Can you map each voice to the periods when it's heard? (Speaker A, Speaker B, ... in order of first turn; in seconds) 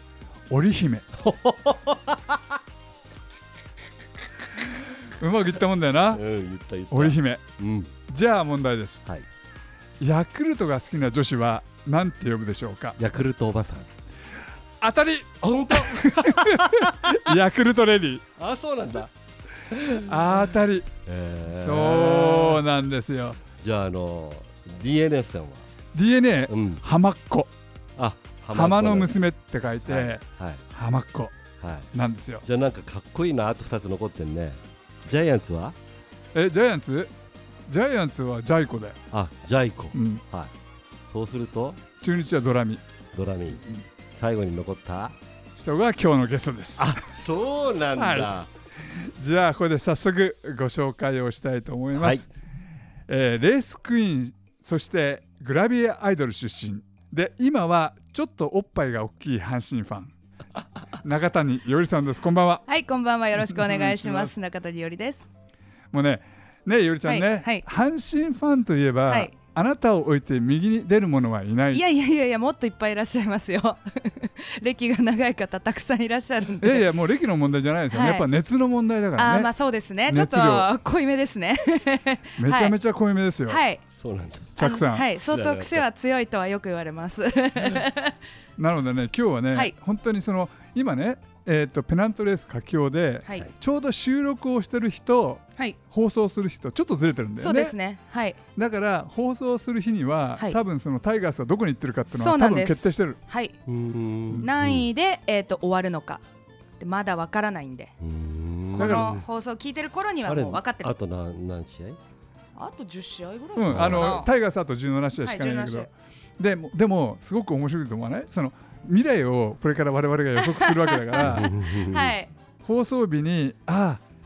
Speaker A: 0.5-1.1, 5.1-6.2, 6.9-7.4, 8.1-9.0, 10.0-13.0, 14.8-18.2, 19.9-20.9, 21.5-23.4, 25.9-27.5, 28.5-31.4, 31.9-32.4, 36.3-37.1, 37.7-39.0, 39.9-40.2, 42.0-42.8, 45.5-47.0, 47.9-52.3, 53.1-60.1, 61.0-62.6, 63.5-64.3, 65.9-71.8, 76.6-79.5, 80.1-80.7, 82.4-83.6, 84.5-85.1, 88.6-97.8, 98.5-103.2, 108.7-109.2, 113.5-121.5, 122.6-124.0
Speaker B: 1.1-2.6, 6.1-7.9, 13.0-13.9, 15.4-17.2, 18.4-20.2, 21.1-22.6, 23.6-25.6, 26.5-26.8, 28.0-29.2, 29.9-30.6, 31.6-31.9, 32.4-35.8, 39.1-40.5, 41.1-41.8, 43.1-43.6, 44.1-45.1, 46.8-48.5, 52.0-52.2, 84.0-84.6, 85.2-85.8, 103.7-104.8, 108.0-109.2, 110.3-112.0, 113.7-114.2, 121.2-122.2
Speaker C: 62.6-65.3, 67.0-67.6, 69.1-69.3, 71.7-76.9, 77.9-78.3, 79.2-82.8, 83.5-83.8, 84.6-88.2, 97.4-98.4, 102.1-103.5, 104.4-106.2, 106.8-107.9, 108.7-110.9, 112.5-114.3, 115.2-115.9, 120.4-122.3